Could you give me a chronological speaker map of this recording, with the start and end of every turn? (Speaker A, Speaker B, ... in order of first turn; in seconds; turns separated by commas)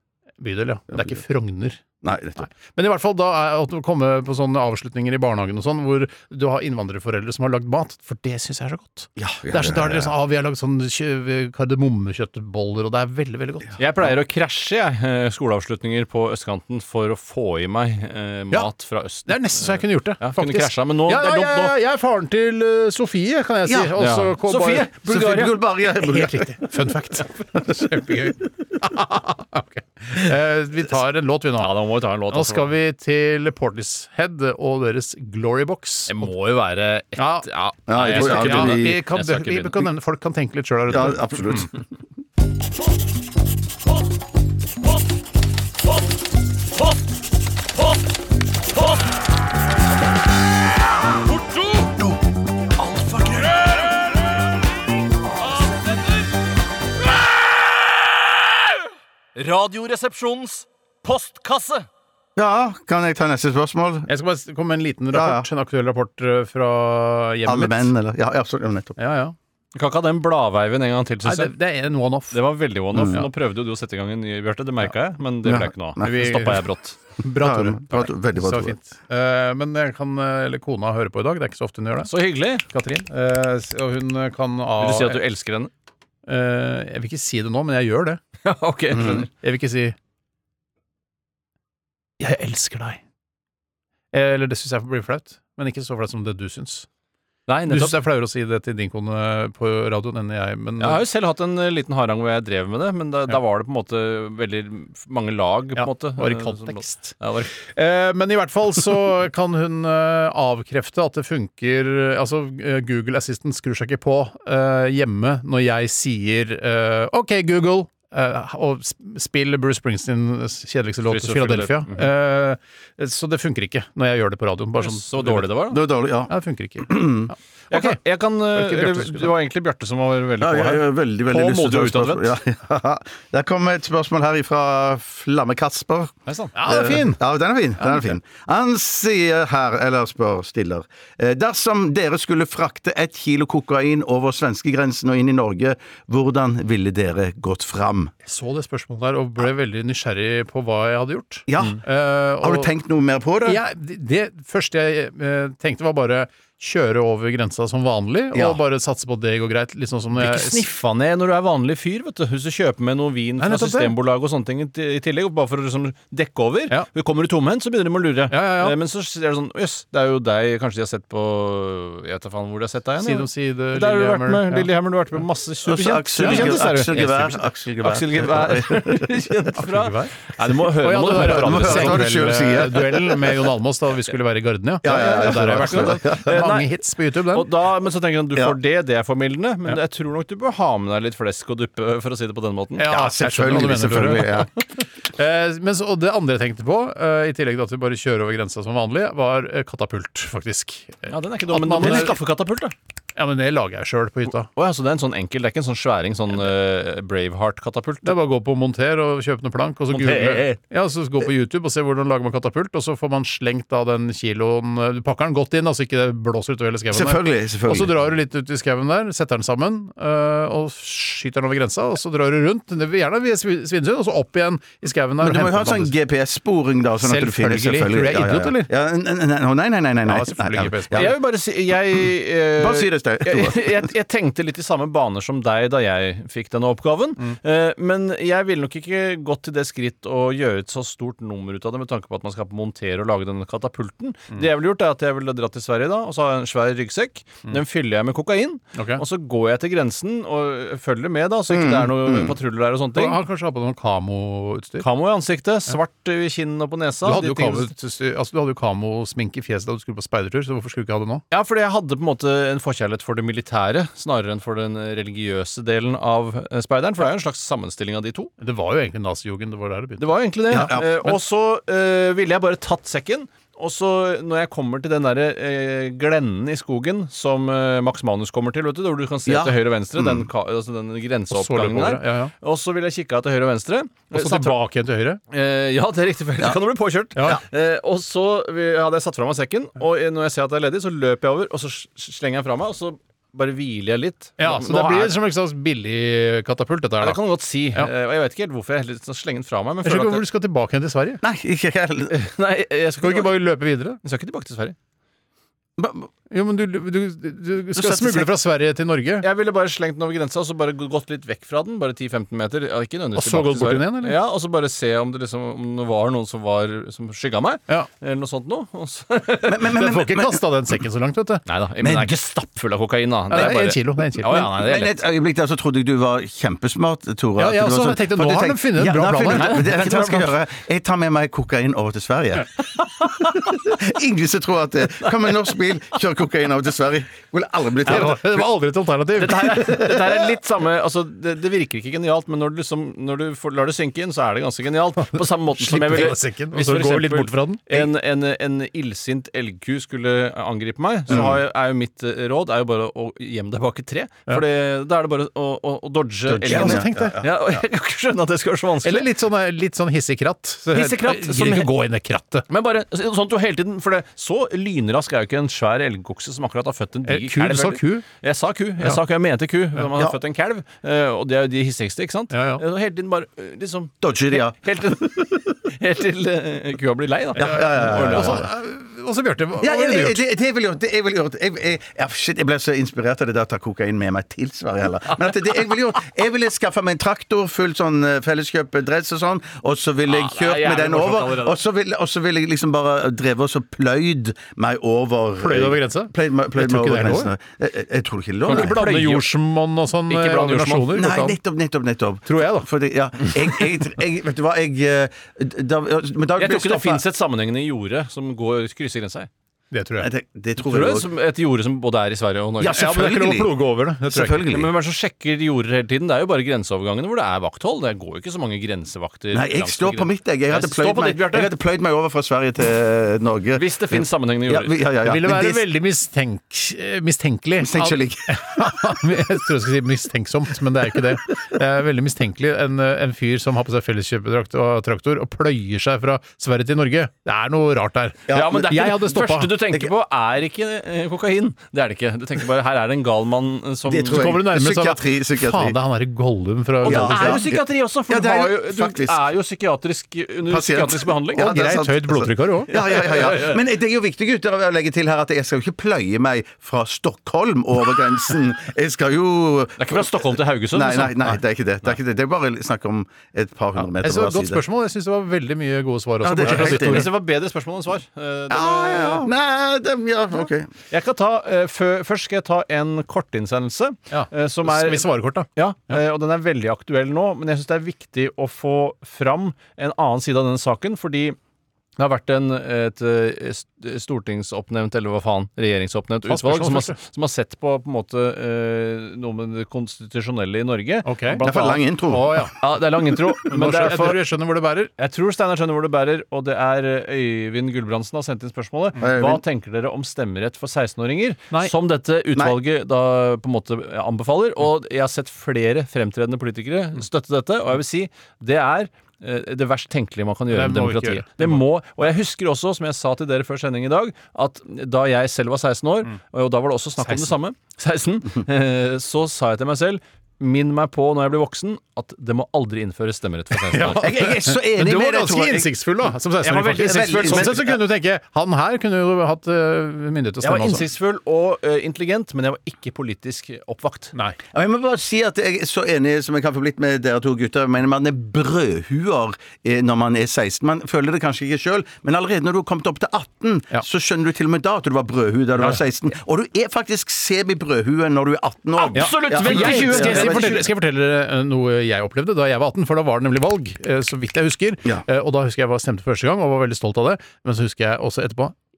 Speaker A: 0.4-1.8, Speaker B: 0.9-1.2, Speaker B: 2.0-2.5, Speaker A: 2.4-13.8, Speaker B: 9.2-10.1, Speaker C: 13.8-21.7, Speaker A: 19.2-24.9, Speaker B: 23.6-23.9, Speaker C: 24.0-25.6, Speaker B: 25.0-26.7, Speaker A: 26.0-31.7, Speaker C: 31.6-32.7, Speaker A: 32.3-36.2, Speaker C: 36.1-39.9, Speaker A: 37.2-37.5, Speaker B: 37.9-39.0, Speaker A: 38.0-41.7, Speaker B: 40.9-41.8, Speaker C: 51.2-52.1, Speaker C: 52.8-54.0, Speaker C: 55.5-56.2, Speaker C: 59.3-61.9, Speaker B: 62.4-64.1, Speaker A: 64.1-67.9, Speaker B: 65.1-65.5, Speaker B: 67.5-69.0, Speaker A: 69.0-69.3, Speaker C: 69.7-71.5, Speaker A: 71.2-72.4, Speaker C: 72.3-77.0, Speaker B: 72.9-73.2, Speaker B: 75.4-76.1, Speaker A: 76.0-76.6, Speaker A: 77.2-82.1, Speaker B: 77.3-78.8, Speaker C: 82.1-82.6, Speaker A: 82.7-85.2, Speaker C: 84.8-85.7, Speaker A: 86.3-88.2, Speaker C: 88.4-89.3, Speaker B: 88.9-89.2, Speaker A: 89.3-90.0, Speaker A: 92.2-93.0, Speaker A: 94.1-96.9, Speaker C: 97.5-98.0, Speaker A: 97.7-101.0, Speaker C: 100.8-107.5, Speaker A: 105.8-125.5, Speaker C: 121.1-122.1, Speaker C: 124.8-125.8, Speaker B: 125.7-127.3, Speaker A: 126.3-128.0, Speaker C: 127.7-132.4, Speaker A: 128.5-129.3, Speaker B: 130.4-148.1, Speaker A: 136.5-137.2, Speaker A: 148.2-152.7, Speaker B: 151.5-151.8, Speaker B: 152.4-153.6, Speaker A: 153.4-160.6, Speaker B: 158.3-158.6, Speaker C: 160.2-182.2, Speaker A: 163.4-163.9, Speaker A: 168.3-168.7, Speaker A: 173.0-174.7, Speaker B: 175.7-179.1, Speaker A: 176.2-177.1, Speaker A: 179.6-187.5, Speaker B: 181.1-183.3, Speaker B: 184.8-186.4, Speaker C: 184.8-186.7, Speaker C: 187.3-192.8, Speaker A: 192.8-194.5, Speaker B: 192.8-194.5, Speaker A: 195.1-202.2, Speaker C: 201.1-202.7, Speaker A: 203.2-204.5, Speaker C: 204.5-208.1, Speaker A: 208.0-225.9, Speaker C: 209.9-210.6, Speaker B: 216.9-217.9, Speaker B: 225.2-231.2, Speaker A: 227.0-228.7, Speaker A: 230.1-231.1, Speaker C: 230.9-253.2, Speaker B: 232.6-233.9, Speaker A: 248.7-249.0, Speaker B: 251.5-252.3, Speaker A: 252.9-254.8, Speaker C: 254.8-257.7, Speaker A: 257.0-261.2, Speaker C: 261.3-268.3, Speaker A: 268.4-271.1, Speaker C: 270.0-284.6, Speaker B: 270.5-270.9, Speaker B: 279.2-280.3, Speaker A: 281.3-282.3, Speaker A: 284.1-285.2, Speaker C: 285.3-295.1, Speaker A: 287.1-287.4, Speaker A: 294.4-297.2, Speaker C: 297.0-300.2, Speaker A: 299.8-301.2, Speaker B: 301.2-302.2, Speaker C: 302.1-303.4, Speaker A: 303.0-304.0, Speaker C: 304.0-304.8, Speaker B: 305.8-306.1, Speaker A: 306.3-309.2, Speaker B: 307.8-308.3, Speaker C: 309.2-319.7, Speaker A: 313.1-314.1, Speaker B: 319.4-320.4, Speaker A: 319.7-321.4, Speaker C: 321.5-325.0, Speaker B: 321.8-322.1, Speaker A: 323.3-324.5, Speaker B: 324.5-338.4, Speaker A: 327.4-329.9, Speaker C: 329.3-330.3, Speaker A: 337.8-339.6, Speaker C: 339.1-359.1, Speaker B: 339.6-340.2, Speaker A: 345.2-347.9, Speaker B: 351.1-351.4, Speaker B: 356.3-357.6, Speaker A: 356.4-357.2, Speaker A: 358.8-362.4, Speaker C: 360.7-361.7, Speaker C: 362.5-378.4, Speaker A: 367.1-368.0, Speaker A: 372.3-372.6, Speaker B: 374.0-375.2, Speaker B: 377.4-378.5, Speaker A: 377.4-380.2, Speaker B: 379.6-398.8, Speaker C: 390.1-391.6, Speaker A: 395.4-397.3, Speaker C: 398.4-399.3, Speaker A: 398.5-401.4, Speaker C: 400.1-401.0, Speaker B: 400.9-407.0, Speaker A: 402.2-402.7, Speaker C: 406.4-409.3, Speaker A: 409.7-410.1, Speaker B: 410.0-411.1, Speaker C: 410.6-412.9, Speaker B: 412.6-413.5, Speaker A: 412.7-414.4, Speaker B: 414.1-414.7, Speaker C: 414.5-421.5, Speaker B: 419.3-425.6, Speaker C: 423.5-424.8, Speaker A: 425.0-439.5, Speaker B: 427.6-428.4, Speaker B: 438.3-438.7, Speaker C: 438.3-444.3, Speaker B: 443.9-445.8, Speaker A: 444.1-447.5, Speaker C: 446.8-451.6, Speaker B: 446.8-449.2, Speaker B: 450.5-464.6, Speaker A: 451.4-452.7, Speaker C: 452.7-453.6, Speaker C: 459.8-461.2, Speaker A: 464.0-467.1, Speaker B: 466.2-467.1, Speaker C: 466.4-469.3, Speaker B: 468.5-470.7, Speaker C: 470.9-481.4, Speaker A: 474.1-476.0, Speaker C: 482.0-491.8, Speaker A: 486.2-486.9, Speaker A: 491.0-491.4, Speaker B: 491.4-492.5, Speaker A: 492.1-492.5, Speaker C: 492.6-494.3, Speaker A: 493.4-494.9, Speaker C: 495.0-524.1, Speaker B: 499.0-499.4, Speaker A: 510.5-511.6, Speaker A: 517.0-517.3, Speaker A: 523.6-530.9, Speaker B: 523.9-525.7, Speaker C: 526.4-527.7, Speaker B: 526.7-527.8, Speaker C: 530.4-534.1, Speaker B: 534.5-550.6, Speaker C: 548.8-550.7, Speaker A: 548.9-558.5